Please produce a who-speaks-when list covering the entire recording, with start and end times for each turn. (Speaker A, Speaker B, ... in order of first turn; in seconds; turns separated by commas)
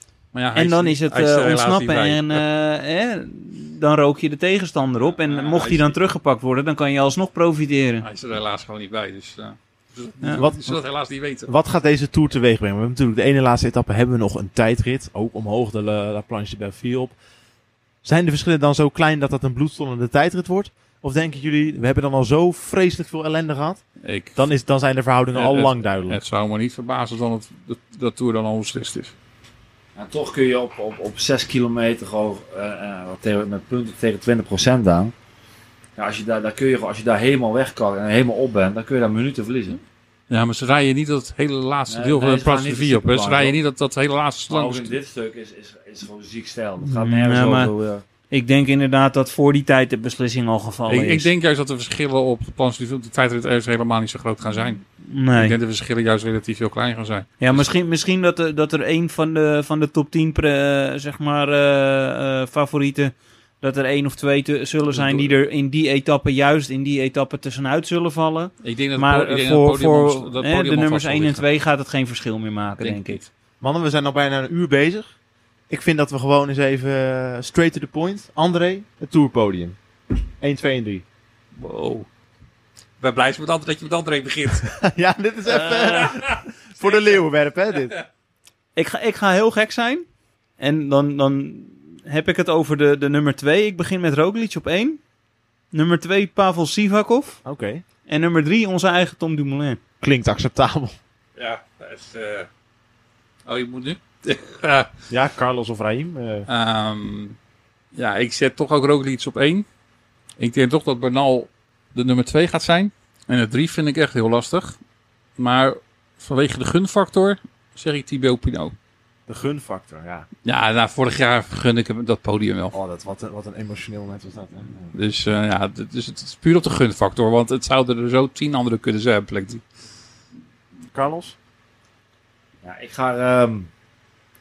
Speaker A: 0.3-2.4, Speaker B: 0.6-8.1, Speaker A: 5.1-6.0, Speaker A: 8.0-11.5, Speaker C: 10.4-17.2, Speaker C: 18.0-26.2, Speaker A: 24.0-24.4, Speaker A: 25.3-29.1, Speaker D: 30.0-35.1, Speaker D: 36.0-39.8, Speaker A: 40.3-45.0, Speaker D: 41.9-43.6, Speaker D: 44.5-48.0, Speaker B: 46.8-47.7, Speaker B: 48.3-51.3, Speaker A: 50.9-57.7, Speaker B: 55.1-55.6, Speaker B: 57.4-73.2, Speaker A: 64.9-65.3, Speaker A: 68.6-71.4, Speaker A: 72.8-73.3, Speaker C: 73.6-75.2, Speaker C: 75.7-81.0, Speaker A: 81.6-82.1, Speaker A: 83.0-84.8, Speaker C: 84.8-88.0, Speaker B: 85.5-86.1, Speaker A: 86.0-87.0, Speaker B: 88.8-90.0, Speaker B: 90.6-95.0, Speaker B: 95.7-97.4, Speaker C: 97.4-97.8, Speaker B: 98.1-99.8, Speaker C: 100.0-101.0, Speaker A: 101.4-102.5, Speaker A: 103.5-104.9, Speaker C: 105.1-106.5, Speaker A: 106.5-107.4, Speaker A: 108.0-109.7, Speaker A: 110.4-114.8, Speaker A: 115.4-118.8, Speaker C: 119.3-120.3, Speaker A: 120.5-122.8, Speaker C: 122.7-124.9, Speaker A: 124.9-129.6, Speaker C: 130.9-131.4, Speaker D: 132.6-133.7